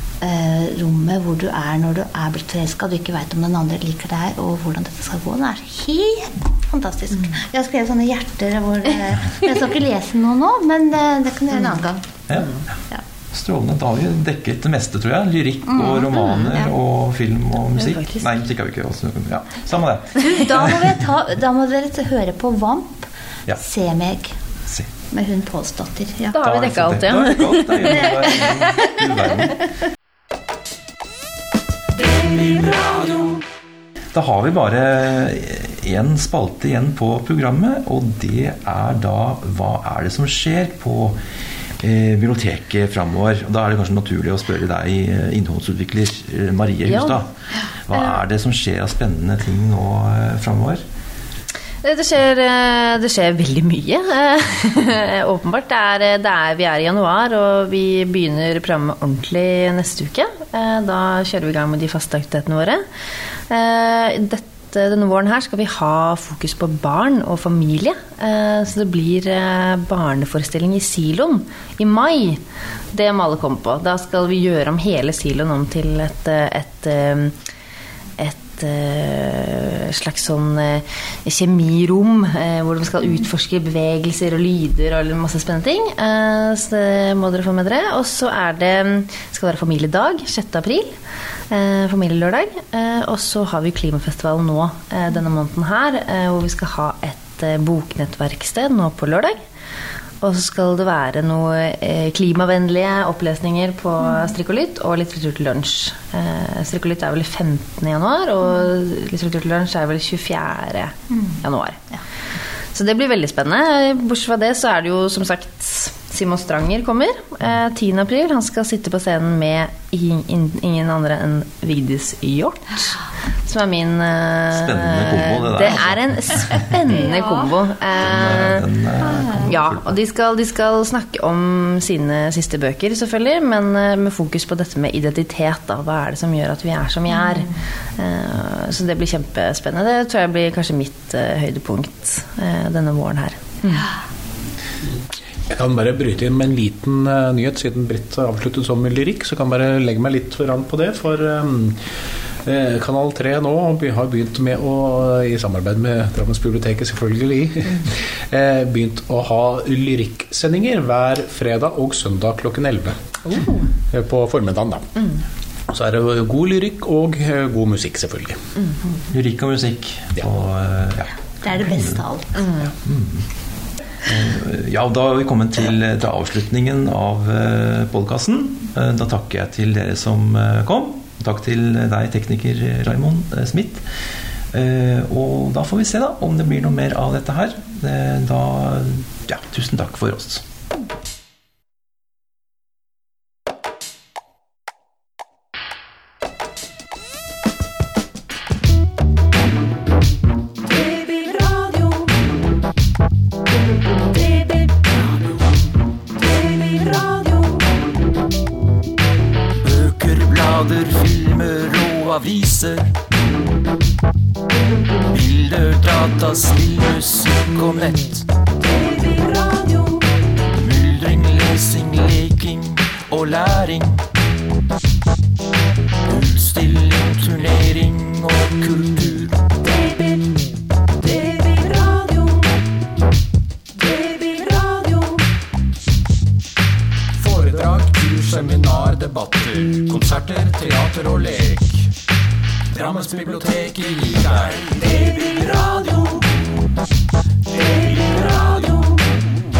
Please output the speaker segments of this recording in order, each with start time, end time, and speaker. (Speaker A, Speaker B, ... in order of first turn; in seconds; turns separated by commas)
Speaker A: 0.2-12.2, Speaker B: 12.3-12.6, Speaker B: 13.3-20.9, Speaker A: 15.7-16.2, Speaker C: 17.8-18.3, Speaker A: 20.2-24.3, Speaker A: 25.1-26.4, Speaker C: 26.3-28.4, Speaker B: 26.4-29.6, Speaker D: 31.9-33.4, Speaker B: 34.1-41.2, Speaker B: 41.8-47.3, Speaker C: 46.9-47.2, Speaker B: 47.9-50.8, Speaker C: 51.8-62.8, Speaker C: 63.5-72.4, Speaker C: 72.9-77.3, Speaker C: 78.2-90.9, Speaker C: 91.5-99.4, Speaker C: 100.2-111.8, Speaker C: 112.7-128.7, Speaker B: 124.5-126.7, Speaker A: 126.9-127.5, Speaker B: 128.0-130.0, Speaker A: 129.0-129.5, Speaker C: 129.4-143.9, Speaker E: 145.5-151.8, Speaker E: 152.4-163.2, Speaker C: 163.2-163.7, Speaker E: 163.8-165.0, Speaker E: 165.7-168.4, Speaker B: 169.1-172.0, Speaker A: 171.4-172.5, Speaker B: 172.7-173.3, Speaker B: 174.0-183.8, Speaker B: 184.5-190.4, Speaker D: 200.6-202.2, Speaker D: 204.1-205.0, Speaker D: 206.1-207.7, Speaker D: 209.6-212.9, Speaker D: 215.0-224.0, Speaker D: 226.1-230.3, Speaker D: 231.0-232.6, Speaker D: 233.7-235.3, Speaker D: 237.2-241.9, Speaker D: 242.7-246.5, Speaker D: 247.5-249.2